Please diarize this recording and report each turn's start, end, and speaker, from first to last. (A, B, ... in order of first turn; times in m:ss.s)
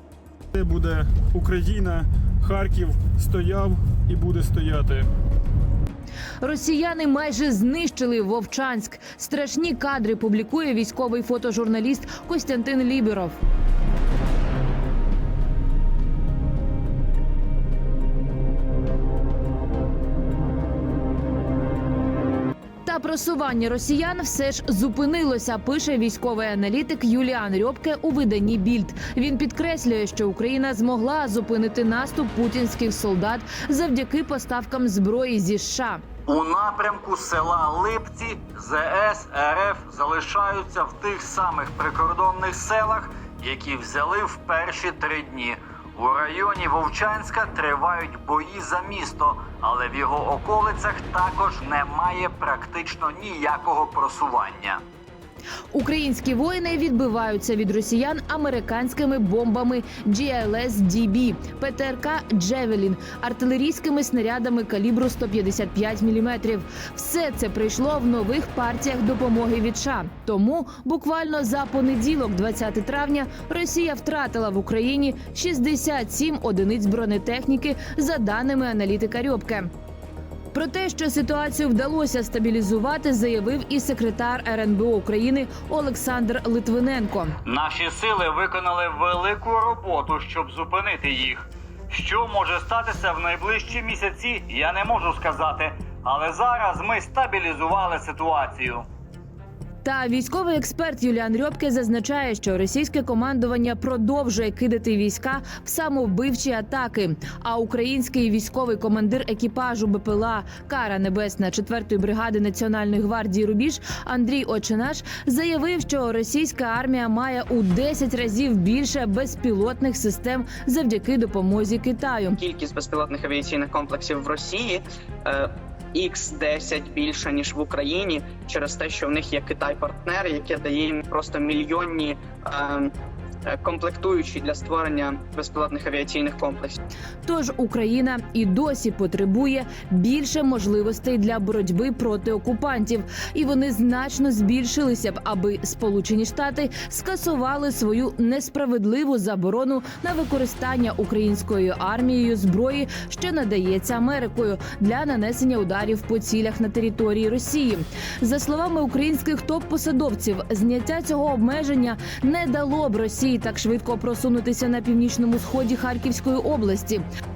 0:00.5-0:05.1 A
0:06.4-0:13.3 B
0:22.9-0:36.0 B
0:36.3-0:54.8 C
0:55.7-1:19.7 B
1:20.5-1:27.3 B
1:27.4-1:38.8 C
1:39.8-2:02.4 B
2:02.4-2:12.9 D
2:13.4-2:16.8 D
2:17.3-2:47.0 B